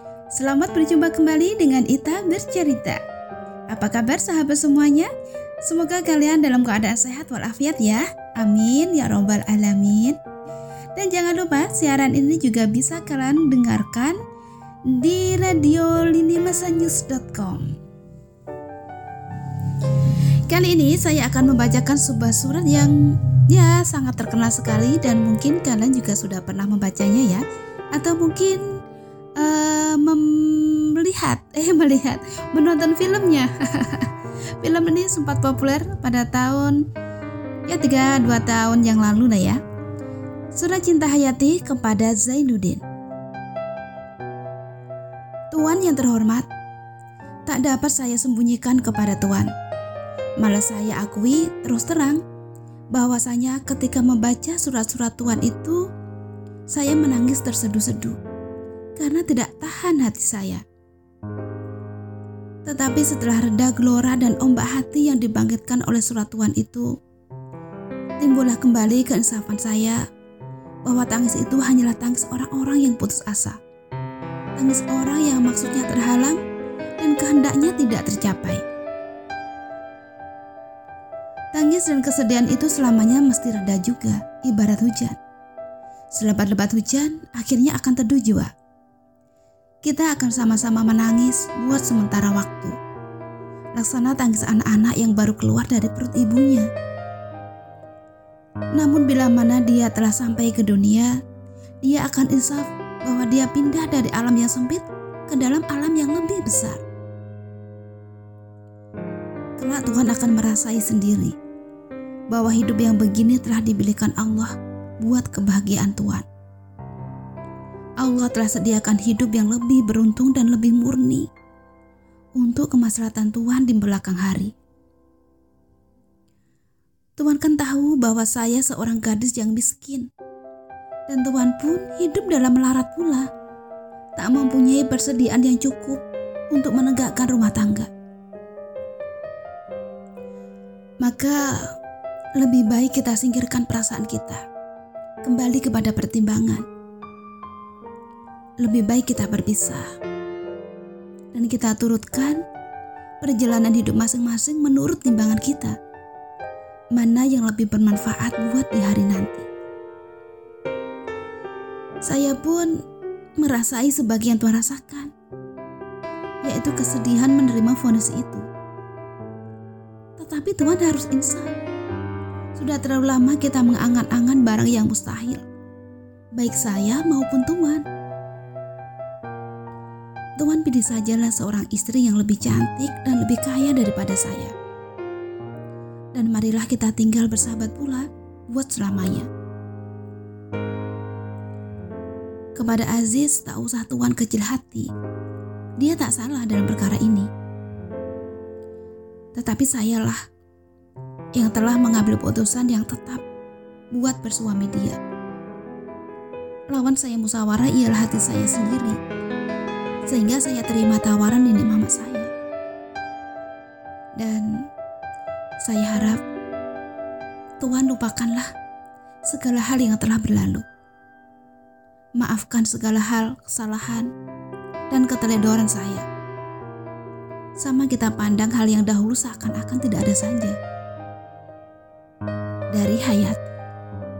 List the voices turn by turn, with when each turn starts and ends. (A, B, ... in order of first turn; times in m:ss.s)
0:00.3-0:03.0 A
0:03.7-0:05.1 A
0:05.6-0:10.2 A
0:11.0-0:14.2 A
0:14.9-0:17.8 A
0:20.5-0:28.6 A
0:29.4-0:36.9 A
0:37.7-0:39.6 A
0:40.5-0:42.8 A
0:45.5-0:46.5 A
0:47.5-0:49.5 A
0:50.4-0:52.2 A
0:52.9-0:55.9 A
0:56.7-0:58.2 A
0:59.0-1:00.6 A
1:02.6-1:06.9 A
1:08.2-1:10.0 A
1:10.8-1:13.6 A
1:14.6-1:16.4 A
1:17.0-1:18.6 A
1:21.5-1:25.2 A
1:26.1-1:28.5 A
1:29.8-1:32.7 A
1:33.8-1:36.7 A
1:38.8-1:41.1 A
1:41.8-1:46.8 A
1:49.6-1:51.4 A
1:52.3-1:56.2 A
1:58.0-2:01.3 A
2:02.4-2:04.5 A
2:07.2-2:10.1 A
2:11.1-2:13.3 A
2:14.2-2:17.9 A
2:21.0-2:21.7 A
2:22.4-2:24.4 A
2:25.2-2:26.6 A
2:28.6-2:29.8 A
2:31.3-2:32.4 A
2:33.2-2:35.8 A
2:36.9-2:39.5 A
2:42.0-2:42.8 A
2:43.4-2:45.1 A
2:46.4-2:48.4 A
2:50.2-2:51.5 A
2:52.5-2:55.4 A
2:56.4-2:57.8 A
3:00.4-3:04.5 A
3:06.1-3:09.3 A
3:12.6-3:14.9 A
3:15.8-3:17.3 A
3:19.3-3:20.2 A
3:21.4-3:23.2 A
3:23.9-3:25.0 A
3:26.7-3:29.0 A
3:30.1-3:32.3 A
3:34.2-3:34.7 A
3:35.6-3:36.2 A
3:37.6-3:38.5 A
3:39.3-3:40.6 A
3:42.2-3:44.1 A
3:44.9-3:46.1 A
3:47.6-3:50.6 A
3:52.7-3:53.4 A